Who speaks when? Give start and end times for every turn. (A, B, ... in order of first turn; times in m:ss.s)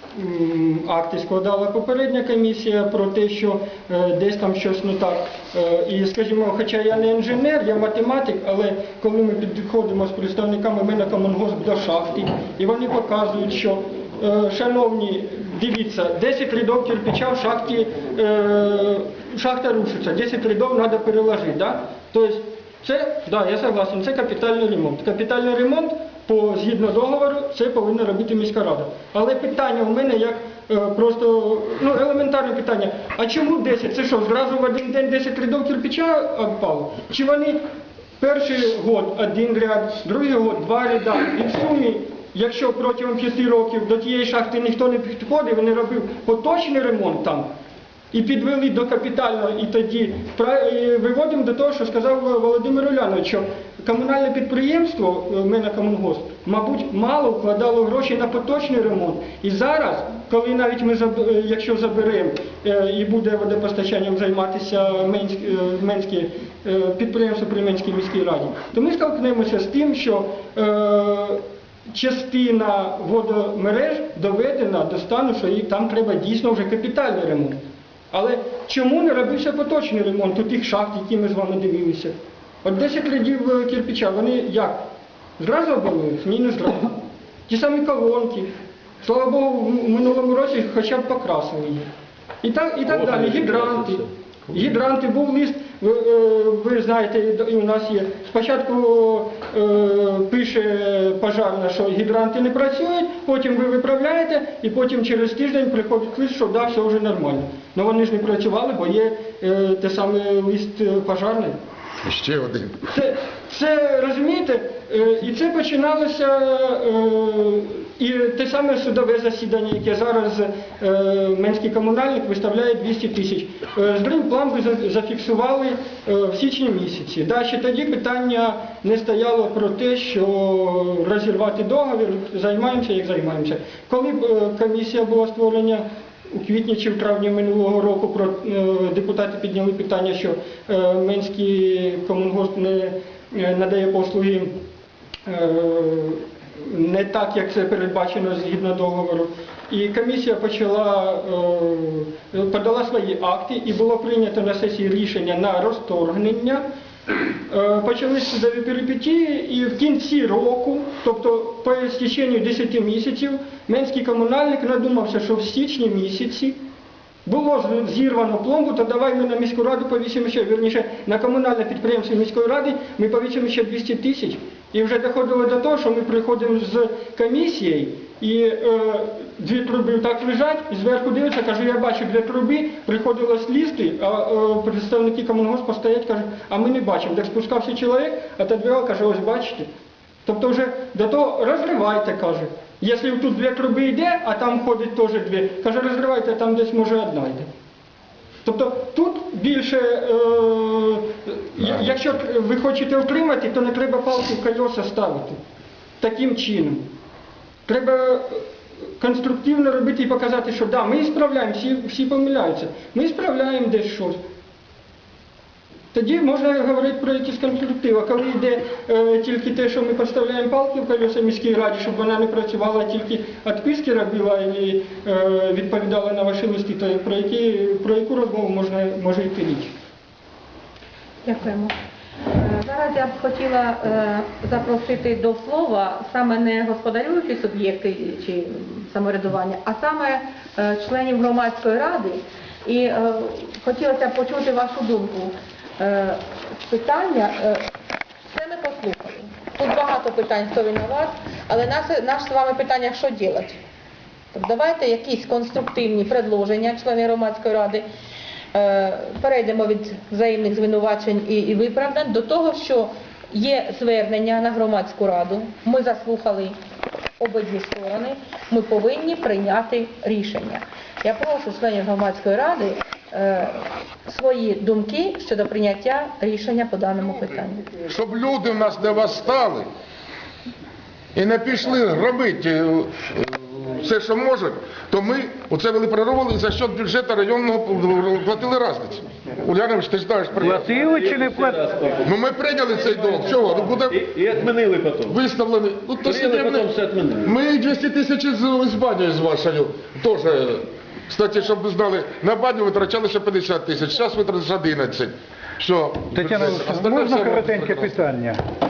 0:00.1-0:37.6 A
0:38.2-0:47.5 A
0:48.1-1:24.8 A
1:25.4-1:31.9 A
1:32.4-1:34.0 A
1:32.8-1:34.8 B
1:34.5-1:51.6 A
1:52.0-1:52.8 C
1:52.9-2:24.6 A
2:25.2-2:36.6 A
2:37.5-2:46.6 A
2:47.2-3:09.7 A
3:10.2-3:17.5 A
3:18.4-3:25.4 A
3:26.0-3:26.9 A
3:27.7-3:28.4 A
3:29.0-3:34.2 A
3:35.9-3:49.7 A
3:51.2-3:51.7 D
3:52.3-4:07.6 D
4:08.3-4:13.6 D
4:14.3-4:17.8 D
4:18.5-4:26.5 D
4:27.2-4:37.7 D
4:37.8-4:39.7 C
4:41.1-4:50.6 C
4:50.4-4:51.7 E
4:50.4-4:52.1 B
4:52.0-4:54.0 C
4:52.8-4:55.2 B
4:55.0-4:56.7 C
4:56.0-4:57.3 B
4:57.2-5:08.0 C
5:06.1-5:08.4 E